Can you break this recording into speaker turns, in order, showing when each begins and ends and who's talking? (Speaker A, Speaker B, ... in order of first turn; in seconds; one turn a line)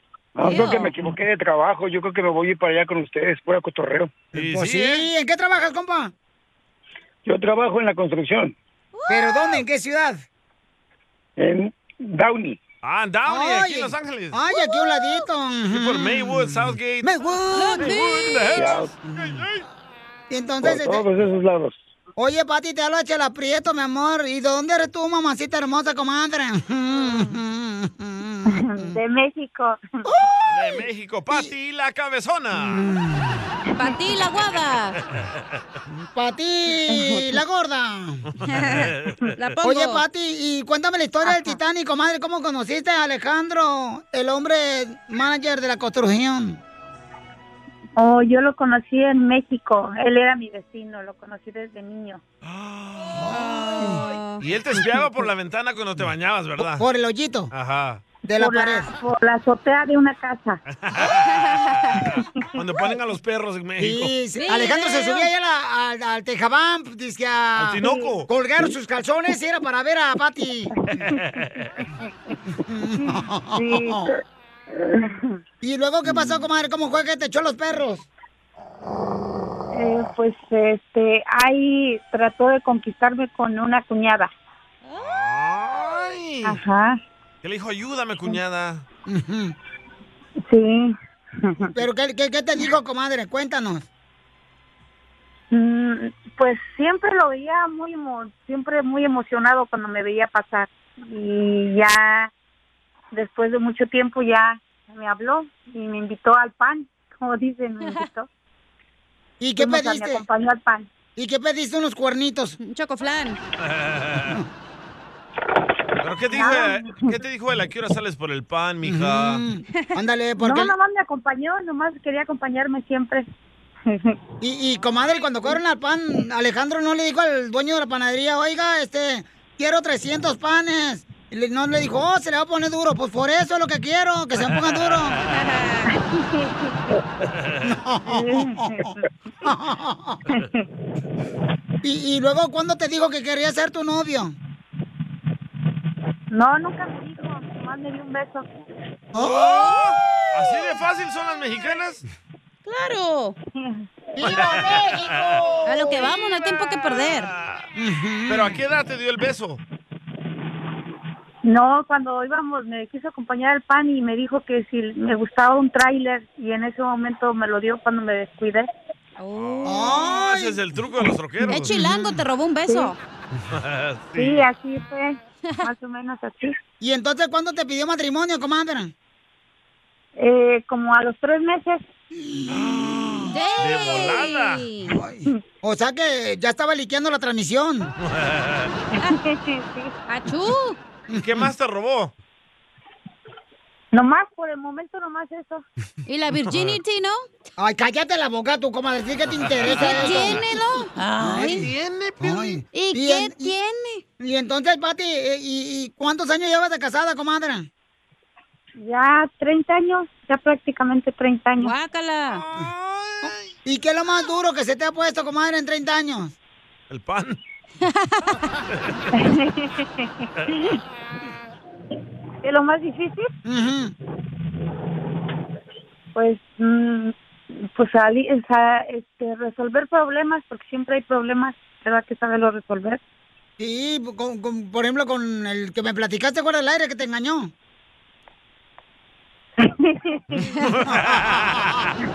Speaker A: 0.3-4.2
Speaker B: 0.4-0.9
Speaker C: 4.3-5.0
Speaker D: 4.3-6.1
Speaker A: 7.2-8.5
Speaker B: 8.9-9.6
Speaker D: 9.1-10.2
Speaker A: 11.4-12.6
Speaker C: 12.8-14.4
Speaker D: 13.2-17.9
Speaker C: 15.7-17.1
Speaker B: 17.5-18.4
Speaker C: 17.8-19.6
Speaker A: 18.5-18.9
Speaker D: 19.1-19.4
Speaker D: 20.3-21.1
Speaker A: 20.6-21.8
Speaker D: 22.2-28.9
Speaker E: 28.5-29.8
Speaker D: 30.1-31.5
Speaker C: 30.5-32.9
Speaker D: 32.7-33.4
Speaker B: 33.7-35.0
Speaker D: 35.9-38.2
Speaker E: 36.9-37.3
Speaker B: 38.5-40.0
Speaker C: 38.5-39.3
Speaker D: 39.6-46.6
Speaker E: 48.0-52.2
Speaker C: 52.4-53.4
Speaker D: 53.2-54.0
Speaker B: 53.7-54.4
Speaker C: 54.4-56.8
Speaker D: 56.8-57.5
Speaker C: 57.5-58.0
Speaker D: 58.2-58.9
Speaker E: 58.4-60.6
Speaker C: 60.7-64.1
Speaker B: 61.3-61.8
Speaker D: 63.8-70.7
Speaker B: 64.4-65.3
Speaker C: 67.6-68.3
Speaker E: 67.8-68.1
Speaker C: 71.2-71.7
Speaker D: 72.7-74.1
Speaker E: 73.5-74.0
Speaker D: 75.6-78.1
Speaker E: 79.7-84.3
Speaker C: 84.9-86.6
Speaker E: 86.4-87.0
Speaker C: 87.4-88.8
Speaker D: 89.1-89.5
Speaker E: 90.5-91.7
Speaker D: 91.7-93.9
Speaker E: 95.5-102.3
Speaker E: 103.1-108.3
Speaker D: 109.4-110.2
Speaker E: 109.6-110.9
Speaker D: 111.2-112.6
Speaker B: 112.6-113.4
Speaker C: 113.6-114.4
Speaker C: 116.0-119.4
Speaker E: 116.3-117.1
Speaker D: 118.8-120.7
Speaker E: 120.4-123.2
Speaker E: 123.9-124.2
Speaker D: 124.4-135.2
Speaker B: 135.5-135.8
Speaker E: 135.9-137.0
Speaker D: 137.6-138.9
Speaker E: 138.1-139.0
Speaker D: 139.4-140.2
Speaker E: 140.3-140.6
Speaker D: 141.8-144.3
Speaker E: 146.3-148.4
Speaker D: 149.1-149.5
Speaker C: 149.2-152.0
Speaker B: 149.4-149.9
Speaker B: 152.6-153.4
Speaker E: 153.6-153.8
Speaker D: 154.2-156.1
Speaker C: 154.2-155.6
Speaker B: 155.7-157.3
Speaker C: 157.0-157.7
Speaker D: 157.8-158.6
Speaker C: 158.3-159.6
Speaker E: 161.4-168.7
Speaker B: 169.2-169.9
Speaker C: 169.3-171.7
Speaker D: 169.6-170.6
Speaker B: 171.5-173.0
Speaker D: 171.7-172.0
Speaker E: 172.7-172.9
Speaker C: 173.5-174.4
Speaker E: 174.1-176.6
Speaker D: 176.8-178.9
Speaker E: 180.2-181.8
Speaker D: 182.3-182.8
Speaker C: 182.5-184.6
Speaker B: 183.3-185.0
Speaker D: 184.9-187.9
Speaker C: 188.0-188.7
Speaker E: 188.9-189.9
Speaker B: 190.1-190.8
Speaker D: 191.1-191.4
Speaker C: 191.1-192.1
Speaker E: 193.9-195.6
Speaker B: 196.1-197.2
Speaker C: 196.5-196.8
Speaker D: 197.6-200.4
Speaker C: 199.6-200.3
Speaker B: 199.7-201.7
Speaker D: 201.2-201.7
Speaker C: 201.4-202.5
Speaker D: 202.2-203.5
Speaker B: 202.7-204.0
Speaker D: 204.2-207.7
Speaker E: 208.8-211.7
Speaker B: 211.6-212.4
Speaker C: 212.3-213.5
Speaker D: 213.6-216.3
Speaker C: 216.9-217.4
Speaker B: 217.8-218.4
Speaker E: 219.1-220.8
Speaker E: 222.4-223.3
Speaker D: 223.4-223.9
Speaker E: 226.1-233.0
Speaker D: 233.6-237.5
Speaker E: 239.6-240.5
Speaker C: 240.7-241.9